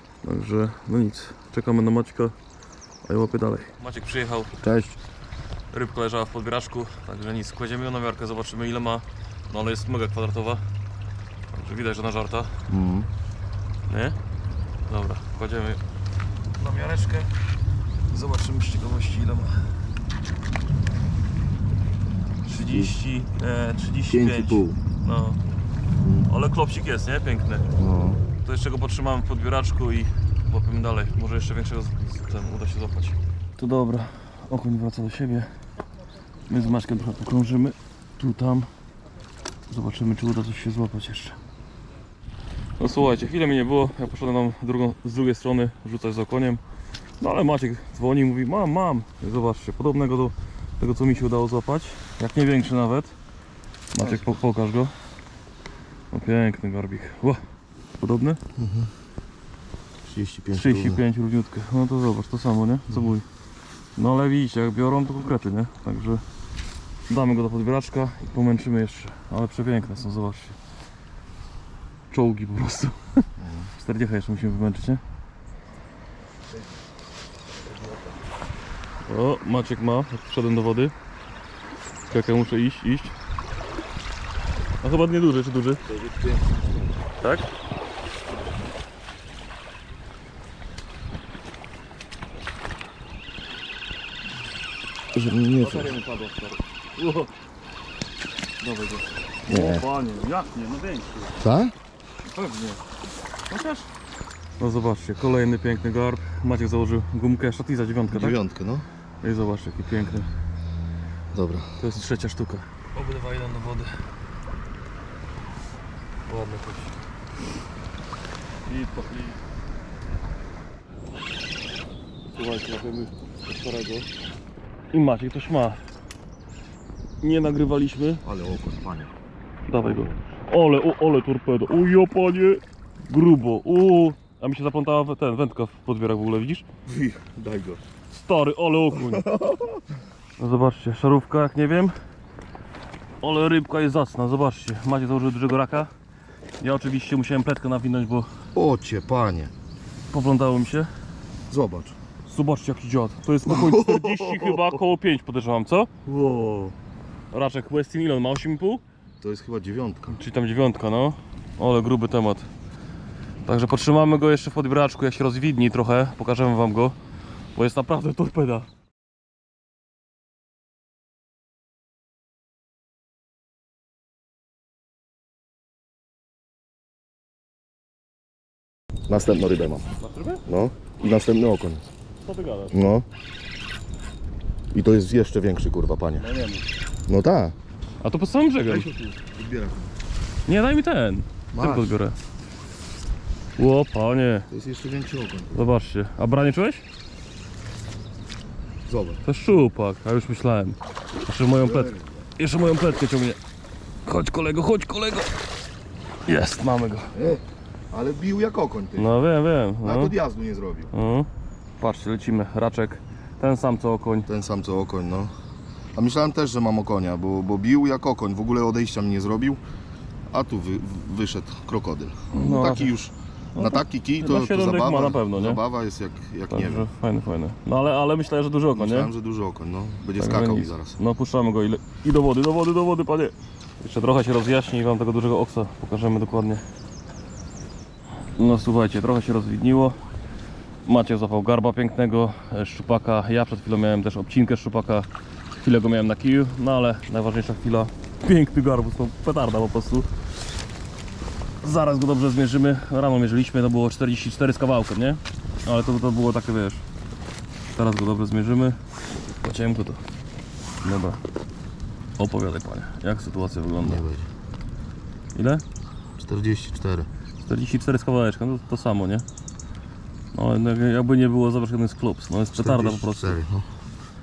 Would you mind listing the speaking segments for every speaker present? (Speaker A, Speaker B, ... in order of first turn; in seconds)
Speaker A: 0.2-2.3, 3.0-4.5, 5.7-10.6, 11.5-12.6, 13.9-14.2, 14.8-15.8, 16.6-17.3, 18.1-19.7, 22.4-25.4, 26.3-27.7, 28.4-35.5, 36.5-38.7, 39.7-41.4, 42.8-46.6, 47.2-53.1, 53.9-54.9, 56.1-57.4, 58.0-58.4, 60.5-63.2, 64.0-66.2, 67.1-70.6, 72.1-75.0, 79.0-80.9, 82.1-83.2, 84.8-85.8, 87.2-87.5, 95.6-97.3, 98.6-101.3, 102.2-102.8, 103.5-103.9, 104.6-108.4, 109.2-110.3, 111.8-113.9, 116.3-116.9, 118.7-119.4, 122.3-124.1, 124.9-125.8, 127.2-128.2, 129.7-136.6, 138.1-139.3, 140.4-141.9, 143.2-145.9, 146.6-148.3, 150.1-150.9, 152.3-156.7, 157.3-158.8, 160.1-162.5, 163.4-166.9, 167.5-168.7, 180.0-180.4, 182.2-182.9, 186.2-186.7, 188.0-188.9, 190.4-192.2, 193.6-194.5, 195.5-196.8, 199.2-203.4, 204.0-205.3, 206.2-207.2, 208.9-210.2, 210.9-211.3, 211.8-214.3, 222.3-222.9, 223.5-225.6, 226.5-229.1, 230.2-236.6, 238.3-240.0, 240.8-250.1, 251.6-256.8, 257.7-258.8, 259.4-260.0, 260.8-261.2, 262.2-264.0, 265.3-265.6, 267.4-269.2, 270.3-273.4
Speaker B: 4.6-5.0, 12.7-13.1, 22.7-22.9, 24.1-24.8, 26.0-26.3, 27.8-28.2, 58.5-58.9, 60.0-61.0, 73.4-73.7, 77.7-78.1, 85.8-86.9, 95.1-96.0, 99.5-99.8, 101.4-101.7, 108.1-108.9, 111.3-111.8, 128.2-129.1, 136.8-137.8, 138.9-139.8, 148.5-149.5, 151.5-152.0, 153.4-154.8, 156.1-156.7, 159.2-160.2, 179.1-179.9, 180.4-181.9, 182.7-183.1, 184.7-186.2, 187.1-187.5, 188.7-189.9, 191.5-191.9, 194.5-195.7, 198.8-199.2, 201.6-202.1, 207.1-209.1, 209.8-210.9, 214.3-215.3, 215.9-219.6, 220.3-226.9, 228.7-231.0, 263.8-264.3, 266.2-267.1, 272.5-273.7